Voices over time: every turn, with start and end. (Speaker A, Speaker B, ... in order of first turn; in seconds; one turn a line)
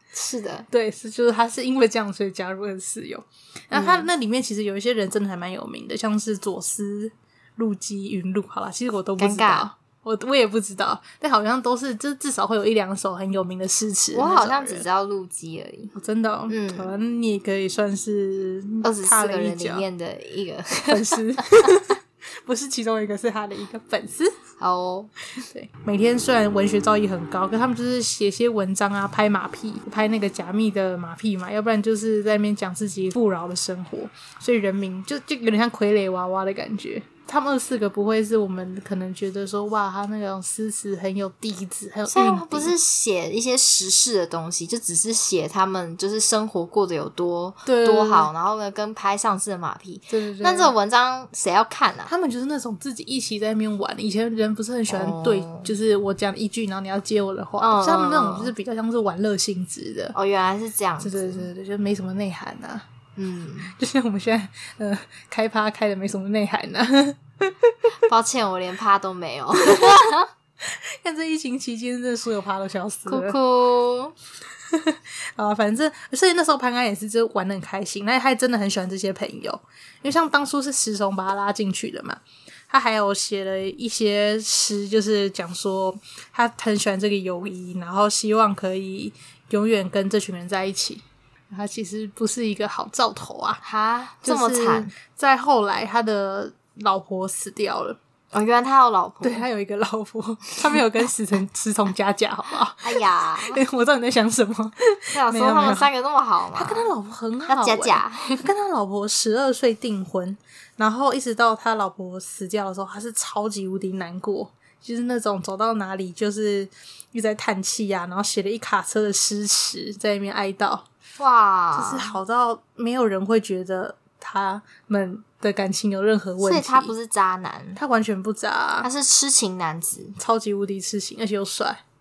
Speaker A: 0.1-0.7
Speaker B: 0.7-14.8
Speaker A: 3.7-4.1
Speaker A: 9.2-9.7
Speaker A: 14.1-15.9
Speaker B: 15.9-19.9
Speaker A: 16.5-16.9
Speaker A: 18.8-21.8
Speaker B: 20.9-24.4
Speaker A: 24.6-25.1
Speaker B: 25.4-42.7
Speaker A: 42.1-52.1
Speaker B: 47.6-48.3
Speaker B: 50.1-50.7
Speaker B: 52.1-60.1
Speaker A: 54.9-55.7
Speaker A: 57.6-58.5
Speaker A: 60.1-61.4
Speaker B: 61.0-62.9
Speaker A: 63.2-63.7
Speaker B: 63.7-67.9
Speaker A: 68.0-70.3
Speaker B: 69.6-70.0
Speaker B: 70.6-73.3
Speaker A: 73.1-74.1
Speaker B: 74.7-93.6
Speaker A: 93.6-94.9
Speaker B: 94.2-98.0
Speaker A: 98.3-99.4
Speaker B: 99.2-105.9
Speaker A: 102.8-103.6
Speaker A: 105.1-106.9
Speaker B: 106.5-120.8
Speaker A: 107.5-108.5
Speaker A: 121.2-122.1
Speaker B: 121.7-126.9
Speaker A: 126.4-127.8
Speaker B: 127.8-128.9
Speaker A: 128.8-130.2
Speaker B: 130.2-131.8